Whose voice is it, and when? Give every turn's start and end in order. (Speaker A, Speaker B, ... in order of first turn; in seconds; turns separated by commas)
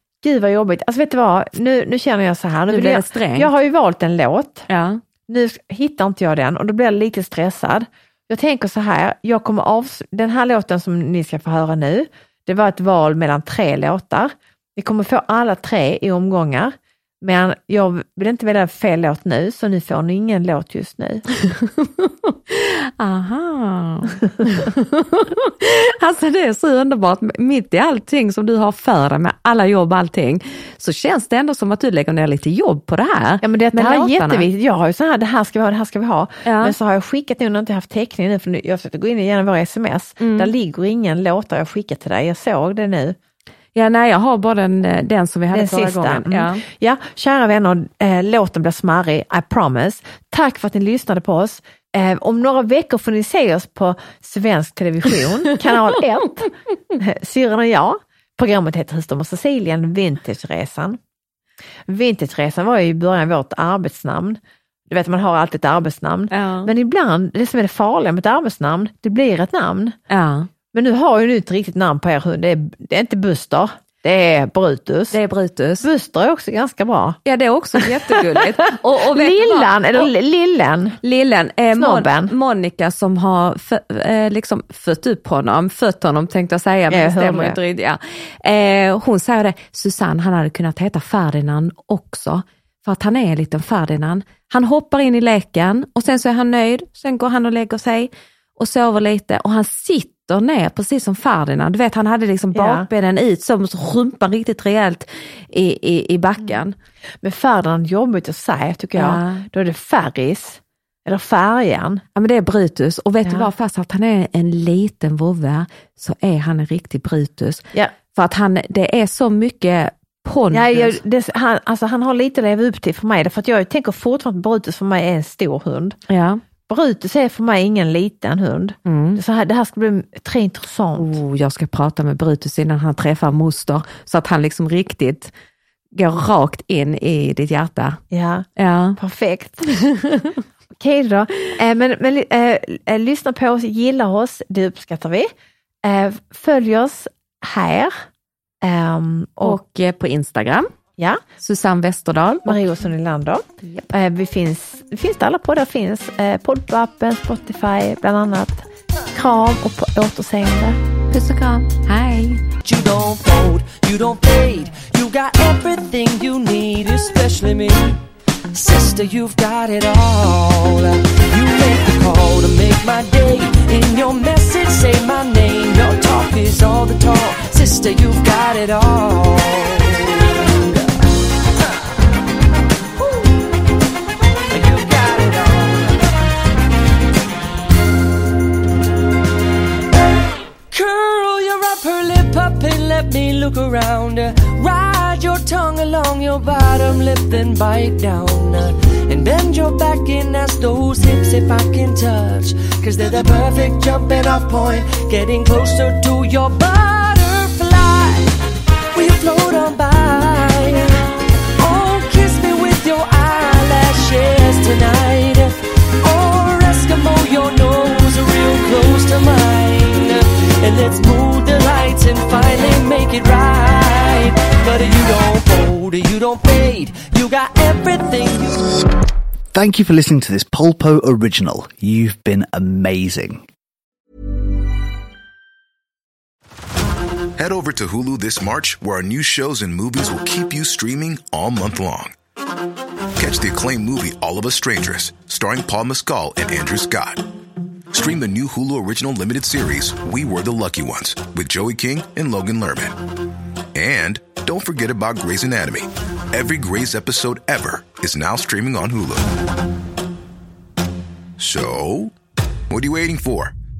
Speaker A: 0.2-4.7, Speaker B: 2.7-3.5, Speaker B: 4.7-5.0, Speaker A: 5.3-21.2, Speaker B: 21.4-34.5, Speaker A: 33.4-43.2, Speaker B: 36.4-36.8, Speaker B: 40.2-40.5, Speaker B: 43.7-46.6, Speaker A: 45.5-61.0, Speaker A: 61.9-70.0, Speaker B: 66.3-66.7, Speaker B: 70.1-70.5, Speaker A: 70.7-75.2, Speaker B: 75.1-75.9, Speaker A: 75.8-77.2, Speaker B: 77.2-80.1, Speaker A: 77.8-81.0, Speaker B: 81.0-106.7, Speaker A: 81.7-82.3, Speaker A: 86.9-87.6, Speaker A: 102.5-102.9, Speaker A: 107.2-112.0, Speaker B: 109.0-109.4, Speaker B: 112.1-121.0, Speaker A: 120.5-126.0, Speaker B: 126.1-126.4, Speaker A: 126.7-131.2, Speaker B: 128.8-129.2, Speaker B: 130.9-135.3, Speaker B: 135.9-138.0, Speaker A: 138.1-139.7, Speaker B: 138.6-139.0, Speaker B: 139.7-140.4, Speaker A: 140.8-145.3, Speaker A: 145.8-147.9, Speaker A: 148.6-149.6, Speaker B: 149.4-150.7, Speaker B: 151.4-152.7, Speaker A: 152.4-160.8, Speaker B: 153.6-153.9, Speaker B: 161.1-162.4, Speaker C: 162.6-168.0, Speaker C: 168.5-181.0, Speaker C: 183.0-183.3, Speaker C: 184.5-186.1, Speaker C: 190.7-208.3, Speaker C: 208.9-211.1, Speaker C: 211.6-228.7, Speaker D: 229.5-233.5, Speaker E: 237.4-242.1, Speaker E: 243.2-247.2, Speaker E: 247.9-253.0, Speaker E: 253.7-259.3, Speaker E: 261.4-262.1, Speaker E: 262.7-263.5